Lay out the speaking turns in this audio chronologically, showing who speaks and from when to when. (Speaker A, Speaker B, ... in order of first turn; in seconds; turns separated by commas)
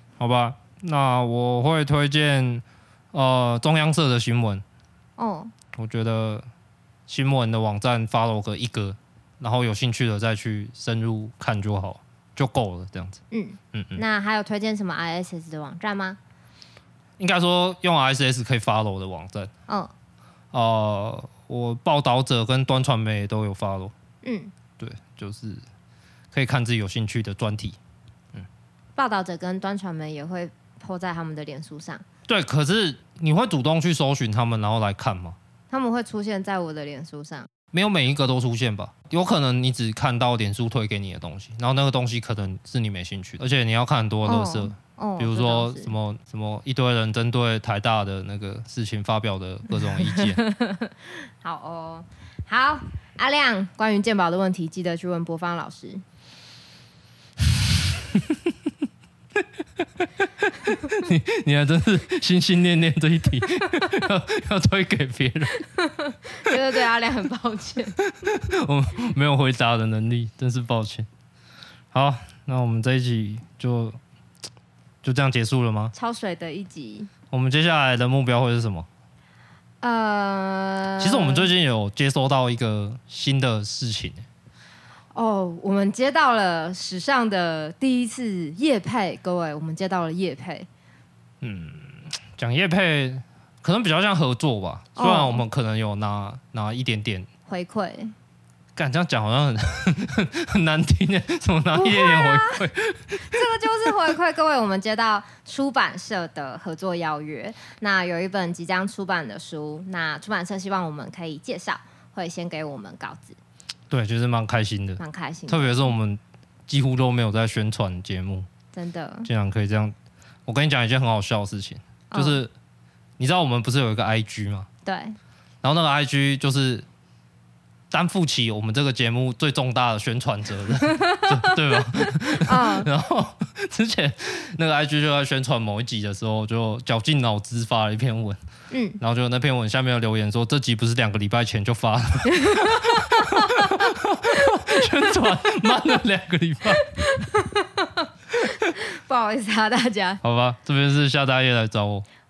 Speaker A: 0.2-4.6, Speaker B: 5.2-5.5, Speaker A: 5.7-6.5, Speaker A: 7.1-13.2, Speaker B: 13.3-16.2, Speaker A: 13.7-14.0, Speaker A: 17.2-19.5, Speaker A: 20.5-23.9, Speaker B: 24.2-24.5, Speaker A: 24.8-25.6, Speaker A: 26.3-27.8, Speaker B: 28.9-32.0, Speaker A: 32.3-35.4, Speaker B: 35.7-37.5, Speaker A: 37.7-50.4, Speaker B: 44.2-45.9, Speaker B: 49.8-56.0, Speaker A: 60.6-65.6, Speaker B: 65.7-68.0, Speaker A: 68.0-71.1, Speaker A: 71.9-74.0, Speaker A: 75.0-75.9, Speaker B: 75.9-77.1, Speaker A: 77.3-78.9, Speaker B: 79.8-81.5, Speaker A: 81.0-84.2, Speaker B: 85.1-90.7, Speaker A: 91.4-97.3, Speaker B: 95.0-95.4, Speaker B: 97.5-98.1, Speaker A: 98.8-103.9, Speaker B: 101.7-102.7, Speaker B: 103.2-113.4, Speaker A: 113.9-118.5, Speaker B: 115.0-115.9, Speaker B: 118.7-119.3, Speaker A: 119.2-119.9, Speaker A: 120.5-122.5, Speaker B: 122.1-122.4, Speaker A: 123.2-124.7, Speaker B: 124.8-125.2, Speaker A: 125.6-126.8, Speaker A: 127.9-138.4, Speaker B: 130.9-131.6, Speaker B: 132.4-132.9, Speaker B: 138.7-139.0, Speaker A: 139.0-146.8, Speaker B: 142.3-144.8, Speaker B: 146.7-150.2, Speaker A: 150.2-152.0